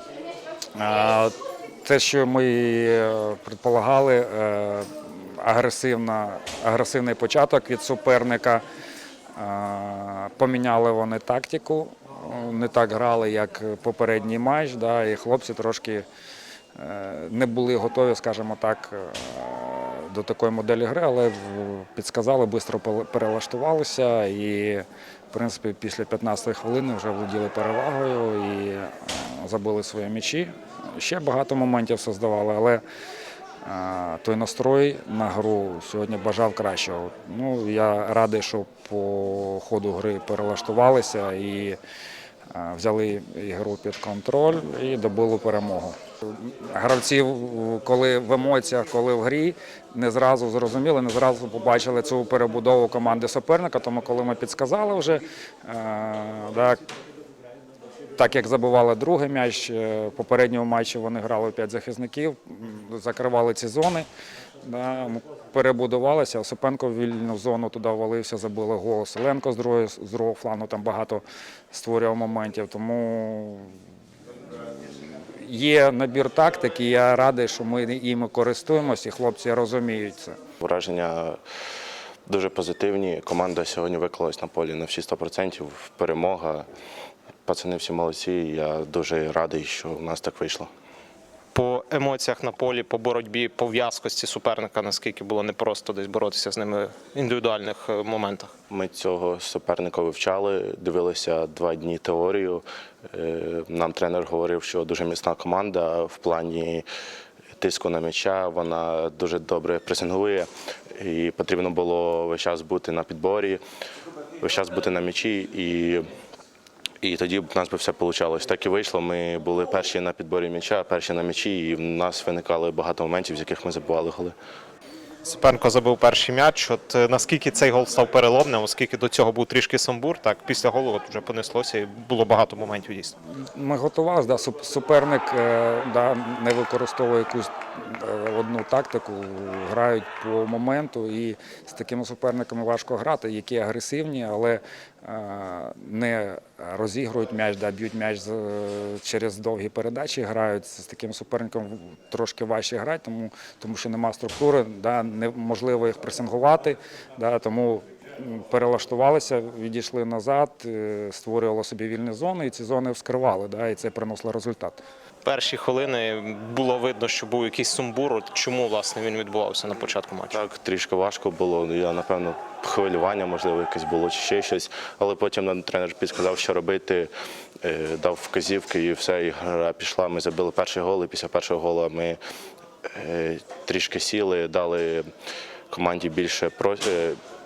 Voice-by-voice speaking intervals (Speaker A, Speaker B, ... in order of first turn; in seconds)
Speaker A: 0.8-8.6, 9.3-16.1, 16.7-32.8, 33.6-41.8, 42.5-56.8, 58.2-64.1, 64.6-73.7, 74.6-80.4, 133.4-164.8
Speaker B: 80.6-81.4, 82.3-86.7, 87.5-90.7, 98.7-106.8, 107.6-113.6, 114.4-116.0, 117.0-124.3, 170.3-177.1, 177.6-182.2, 182.9-185.1, 185.7-187.2
Speaker C: 91.5-98.5, 125.2-133.1, 165.2-170.4